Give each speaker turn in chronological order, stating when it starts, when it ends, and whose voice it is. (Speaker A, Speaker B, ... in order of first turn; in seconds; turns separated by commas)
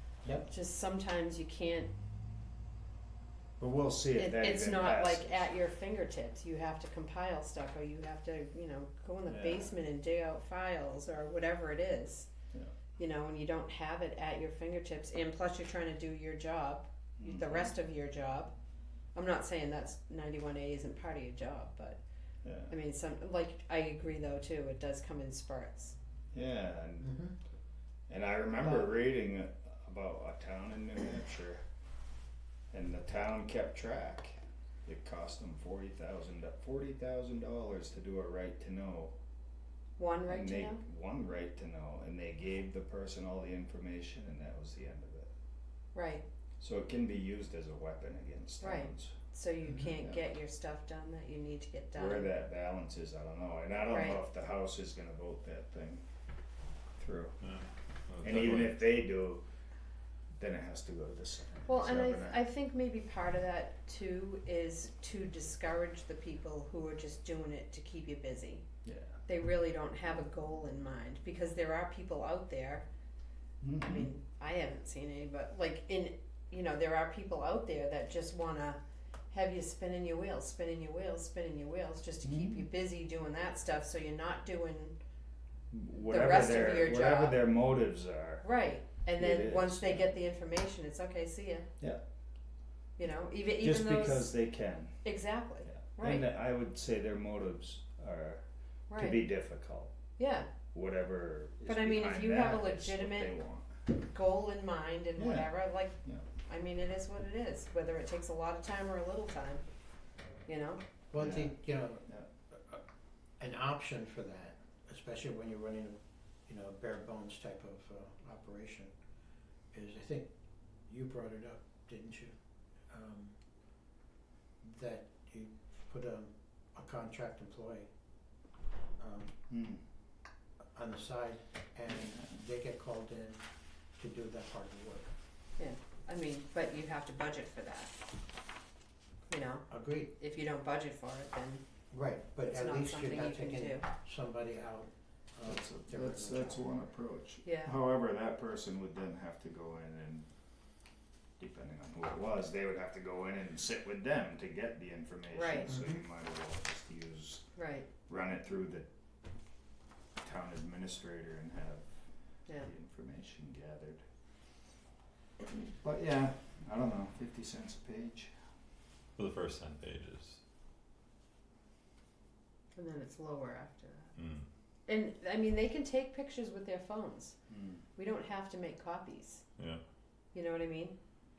Speaker A: 0.5-1.9, Speaker B: 3.6-5.5, Speaker A: 4.2-12.3, Speaker B: 9.3-9.7, Speaker A: 13.0-18.5, Speaker B: 17.2-17.7, Speaker A: 19.1-22.0, Speaker B: 22.4-22.7, Speaker A: 22.7-25.9, Speaker B: 26.3-27.1, Speaker C: 27.0-27.3, Speaker B: 28.1-31.6, Speaker B: 32.7-39.1, Speaker A: 40.0-40.8, Speaker B: 40.3-45.3, Speaker A: 45.9-46.2, Speaker B: 46.6-49.1, Speaker A: 48.6-52.3, Speaker B: 49.7-50.2, Speaker B: 51.9-56.0, Speaker A: 53.9-54.2, Speaker B: 57.0-57.3, Speaker D: 57.4-58.8, Speaker B: 58.2-59.4, Speaker B: 60.4-62.4, Speaker A: 61.7-68.6, Speaker B: 68.8-69.2, Speaker A: 69.3-72.8, Speaker B: 73.6-74.1, Speaker A: 73.8-78.8, Speaker A: 79.3-85.0, Speaker B: 82.2-82.7, Speaker B: 85.7-88.5, Speaker A: 86.1-87.4, Speaker A: 88.4-91.7, Speaker B: 89.1-90.2, Speaker A: 93.0-94.3, Speaker B: 93.6-95.0, Speaker A: 95.0-96.2, Speaker B: 95.6-99.9, Speaker A: 98.9-99.2, Speaker A: 100.2-100.5, Speaker B: 100.7-103.7, Speaker A: 101.7-103.3, Speaker A: 104.0-109.6, Speaker B: 105.2-106.2, Speaker A: 110.5-110.8, Speaker C: 111.1-112.8, Speaker B: 111.2-112.3, Speaker C: 113.4-118.9, Speaker C: 119.7-120.3, Speaker C: 120.8-122.3, Speaker C: 122.9-123.4, Speaker C: 124.6-127.9, Speaker C: 129.0-129.3, Speaker B: 129.5-129.8, Speaker C: 130.7-133.4, Speaker B: 131.9-132.4, Speaker C: 134.0-135.1, Speaker A: 135.6-138.0, Speaker A: 139.3-141.6, Speaker C: 139.7-140.1, Speaker C: 141.9-146.6, Speaker A: 142.5-143.9, Speaker B: 145.5-150.3, Speaker A: 147.4-147.7, Speaker B: 151.4-157.4, Speaker A: 155.3-155.8, Speaker A: 157.6-157.9, Speaker B: 158.1-158.9, Speaker B: 160.2-164.0, Speaker B: 165.5-168.3, Speaker D: 169.2-170.4, Speaker A: 172.8-174.1, Speaker D: 174.2-174.5, Speaker A: 174.9-177.3, Speaker B: 177.5-177.8, Speaker A: 178.0-179.4, Speaker A: 180.3-181.0